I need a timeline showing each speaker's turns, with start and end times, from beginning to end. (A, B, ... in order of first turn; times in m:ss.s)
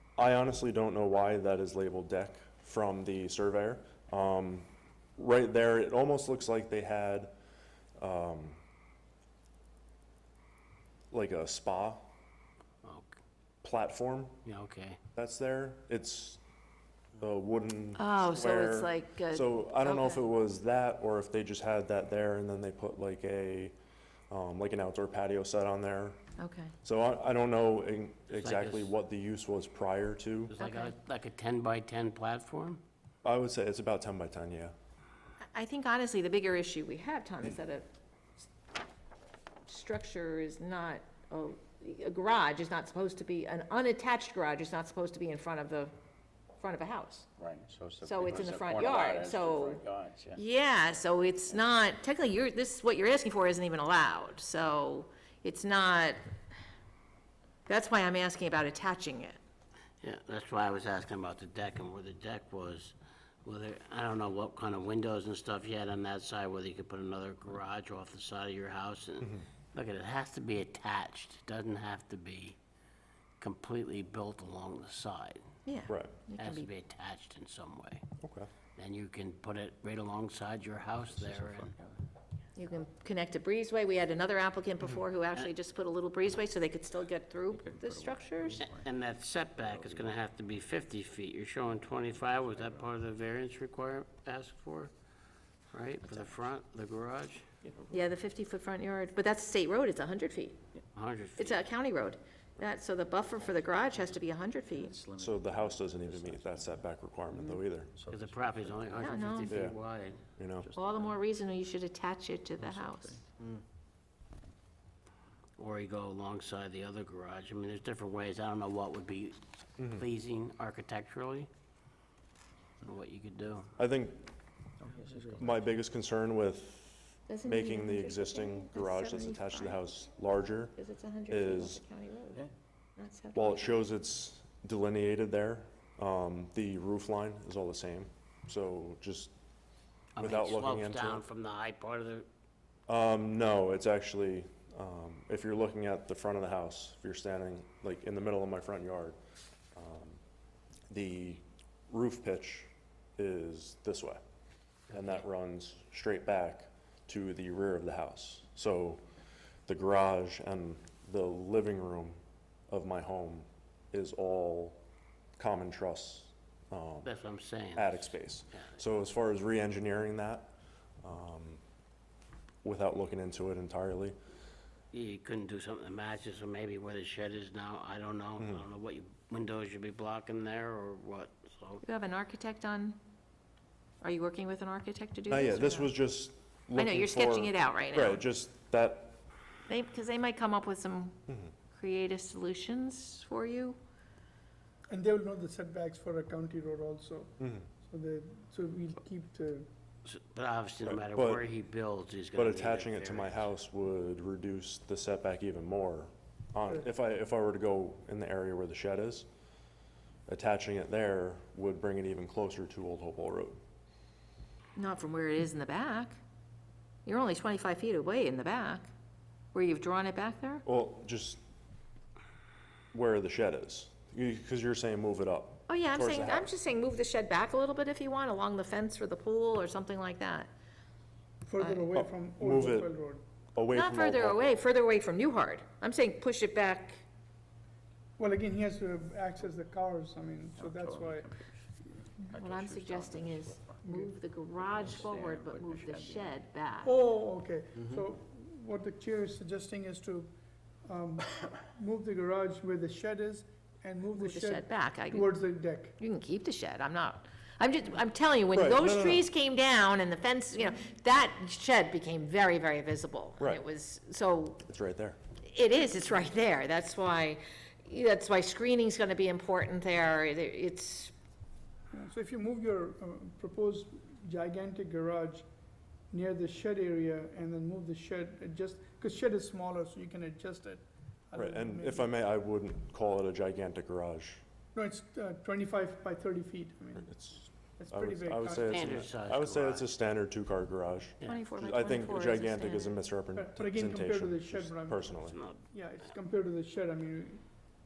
0:00.2-0:07.3 A
0:08.0-0:08.6 A
0:11.1-0:12.1 A
0:12.8-0:13.2 B
0:13.6-0:14.4 A
0:14.4-0:15.0 B
0:15.2-0:16.4 A
0:17.2-0:23.8 A
0:18.0-0:20.2 C
0:24.3-0:26.2 A
0:26.4-0:26.7 C
0:26.8-0:30.6 A
0:28.3-0:28.9 B
0:30.5-0:32.8 B
0:30.6-0:30.9 C
0:33.2-0:34.8 A
0:35.5-0:37.9 C
0:39.7-0:45.9 C
0:46.6-0:47.3 C
0:47.4-0:50.4 D
0:48.0-0:49.8 C
0:50.4-0:56.3 C
0:57.7-0:59.4 C
1:00.0-1:12.6 B
1:13.4-1:15.4 B
1:15.7-1:16.7 C
1:16.4-1:18.0 B
1:18.2-1:18.5 A
1:18.8-1:21.8 B
1:21.1-1:21.9 D
1:22.6-1:28.6 C
1:27.5-1:28.9 D
1:28.6-1:34.9 B
1:29.6-1:30.1 D
1:35.7-1:37.5 B
1:37.9-1:40.6 C
1:41.0-1:41.6 B
1:41.4-1:45.0 C
1:43.9-1:44.2 D
1:44.8-1:49.1 D
1:45.2-1:47.9 A
1:48.1-1:50.2 B
1:49.0-1:49.6 C
1:49.5-1:49.8 A
1:50.4-1:50.7 A
1:50.6-1:51.1 D
1:50.7-1:53.2 C
1:52.6-1:53.6 D
1:55.6-2:01.5 B
1:59.8-2:00.0 A
2:02.8-2:03.7 B
2:03.8-2:04.3 A
2:04.8-2:05.7 D
2:05.4-2:11.8 A
2:07.3-2:09.8 C
2:10.8-2:13.8 C
2:13.3-2:19.3 A
2:20.2-2:22.3 B
2:20.2-2:21.2 A
2:22.9-2:29.2 A
2:29.8-2:30.2 A
2:30.9-2:34.2 A
2:34.9-2:39.0 A
2:39.7-2:42.2 A
2:42.7-2:44.8 A
2:45.4-2:47.1 A
2:47.0-2:48.7 B
2:47.8-2:51.6 A
2:52.6-2:54.2 A
2:54.9-3:01.8 B
2:58.4-2:58.7 A
3:01.8-3:03.0 C
3:04.0-3:05.9 C
3:05.3-3:09.2 A
3:06.7-3:08.2 C
3:09.7-3:11.2 C
3:11.7-3:13.8 C
3:14.9-3:19.7 E
3:17.4-3:17.7 A
3:20.0-3:23.5 B
3:20.8-3:21.5 A
3:22.4-3:29.3 A
3:30.3-3:33.6 A
3:34.8-3:36.2 C
3:37.1-3:38.9 C
3:39.5-3:40.6 C
3:40.6-3:41.4 A
3:42.9-3:46.5 A
3:45.7-3:50.5 C
3:51.5-3:53.2 E
3:51.6-3:51.8 C
3:51.9-3:53.0 A
3:53.6-3:54.6 A
3:53.7-3:57.0 C
3:58.2-4:01.3 E
4:00.6-4:01.6 D
4:02.2-4:03.8 D
4:02.3-4:07.0 C
4:03.8-4:04.1 E
4:04.6-4:06.4 D
4:06.8-4:10.3 E
4:10.8-4:16.0 E
4:14.2-4:15.4 C
4:16.0-4:24.6 C
4:18.5-4:19.3 A
4:24.6-4:25.2 A
4:25.4-4:31.1 C
4:31.9-4:35.4 E
4:36.1-4:42.1 E
4:41.3-4:44.4 A
4:44.7-4:47.1 E
4:47.0-4:55.4 A
4:47.8-4:49.0 E
4:48.6-4:49.9 B
4:51.3-4:53.0 C
4:53.4-4:55.1 E
4:55.3-4:55.6 B
4:55.7-4:57.4 E